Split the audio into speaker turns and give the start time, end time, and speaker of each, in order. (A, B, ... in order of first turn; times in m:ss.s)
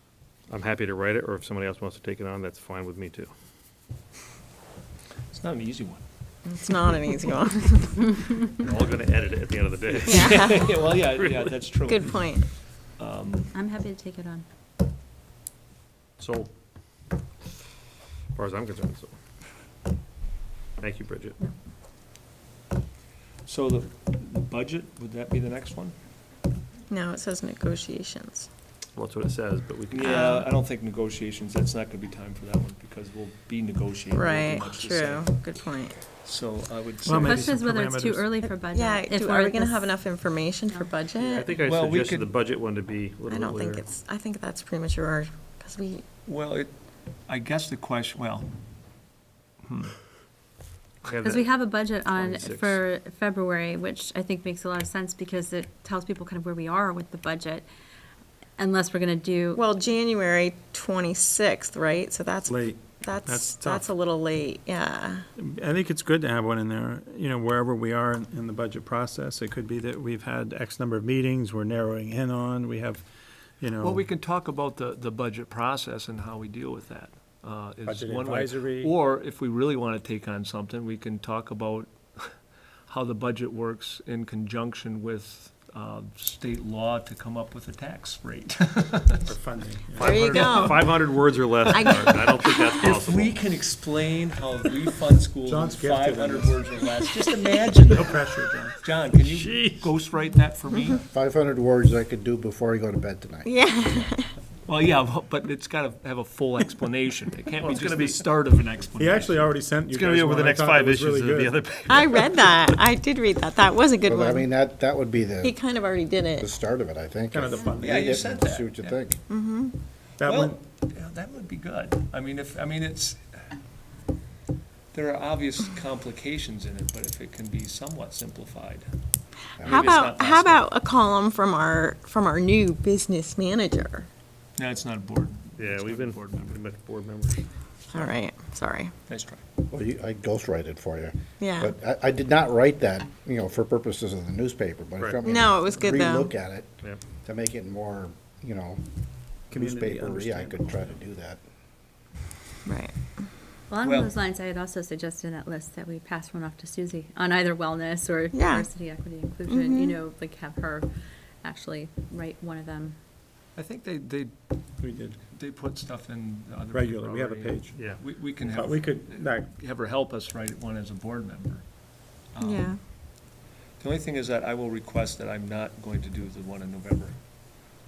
0:00.5-0:03.3 A
0:05.3-0:06.0 B
0:06.5-0:08.0 C
0:08.6-0:10.5 A
0:09.9-0:12.3 B
0:10.0-0:10.8 C
0:11.9-0:12.5 C
0:13.0-0:13.5 B
0:13.5-0:14.4 D
0:16.2-0:16.5 A
0:18.4-0:19.1 A
0:20.8-0:21.4 A
0:23.5-0:26.0 B
0:26.9-0:28.5 C
0:29.0-0:30.4 A
0:29.9-0:35.3 B
0:30.0-0:30.5 C
0:34.1-0:36.0 C
0:36.2-0:37.5 B
0:37.0-0:38.4 E
0:37.1-0:40.0 D
0:38.4-0:41.5 C
0:41.2-0:43.8 A
0:41.6-0:42.3 B
0:43.3-0:46.0 C
0:46.3-0:46.7 B
0:47.3-0:48.5 B
0:49.6-0:50.0 B
0:51.0-0:52.8 A
0:51.2-0:57.7 D
0:58.6-0:59.6 D
0:59.5-1:05.2 C
1:02.5-1:03.9 E
1:05.4-1:13.0 E
1:13.6-1:14.0 E
1:13.8-1:22.4 B
1:17.8-1:18.9 E
1:22.9-1:29.3 B
1:29.3-1:30.8 E
1:30.0-1:33.4 A
1:30.0-1:30.9 C
1:30.2-1:30.6 B
1:31.7-1:32.8 C
1:31.9-1:32.3 B
1:32.8-1:38.3 B
1:35.5-1:36.7 E
1:37.9-1:38.8 E
1:38.8-1:41.0 B
1:39.4-1:39.7 E
1:41.0-1:43.5 F
1:43.4-1:44.4 C
1:44.7-1:49.5 B
1:47.6-1:48.2 A
1:49.0-1:51.6 E
1:49.9-1:52.8 A
1:51.9-1:54.5 C
1:54.0-1:55.6 F
1:55.4-1:56.5 C
1:56.4-1:59.2 F
1:57.3-1:58.1 E
1:57.8-1:59.2 B
1:59.3-1:59.7 C
2:00.2-2:00.6 E
2:00.2-2:03.2 B
2:04.9-2:08.9 B
2:09.6-2:09.9 F
2:09.6-2:14.1 C
2:09.6-2:10.7 B
2:14.6-2:16.6 B
2:15.6-2:18.1 A
2:17.9-2:18.9 C
2:19.1-2:19.4 B
2:19.7-2:28.8 F
2:21.4-2:21.7 C
2:25.2-2:26.3 C
2:29.5-2:31.0 E
2:29.5-2:31.4 F
2:32.7-2:33.2 C
2:33.7-2:40.9 D
2:33.8-2:34.2 B
2:38.3-2:38.7 C
2:39.5-2:40.0 C
2:41.4-2:43.0 D
2:43.6-2:44.3 B
2:44.8-2:45.2 E
2:45.3-2:51.6 B
2:46.7-2:47.9 E
2:47.8-2:48.0 A
2:48.4-2:49.5 E
2:52.3-2:52.8 B
2:52.4-2:52.8 C
2:53.8-2:57.2 B